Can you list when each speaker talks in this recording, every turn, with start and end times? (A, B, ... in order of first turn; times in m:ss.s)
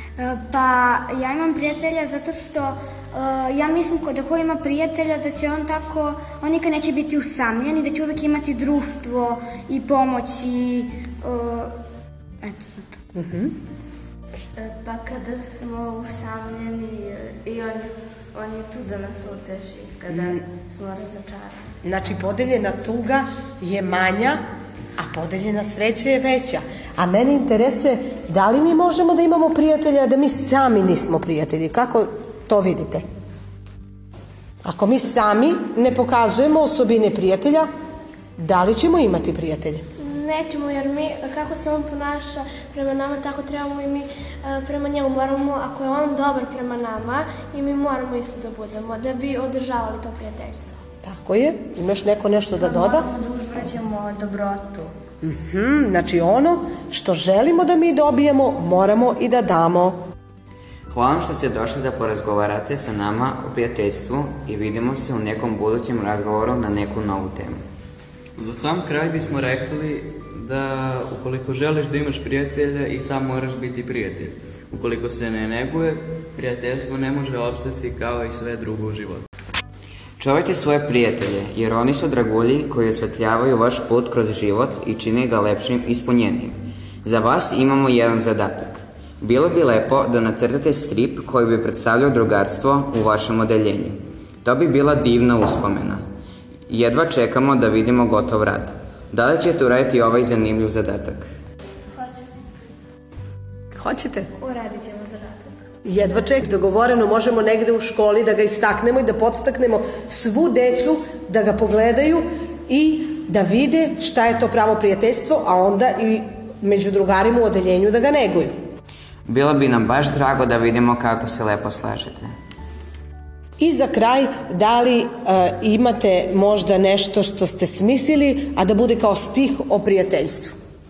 0:00.2-0:11.7 A
0:12.4-0:13.0 A
0:13.2-0:13.5 B
0:14.6-0:21.6 C
0:21.8-0:24.4 B
0:25.0-0:33.0 B
0:34.6-0:37.7 B
0:38.4-0:39.8 B
0:40.0-0:50.8 D
0:51.0-0:53.1 B
0:52.6-0:54.9 C
0:55.2-1:00.0 B
1:00.9-1:07.6 E
1:08.4-1:19.2 F
1:20.2-1:36.0 E
1:36.7-1:41.3 E
1:42.0-1:42.2 D
1:43.7-1:44.3 B
1:44.4-1:45.5 D
1:45.8-1:58.5 B
1:59.3-2:02.3 E
2:03.6-2:10.6 B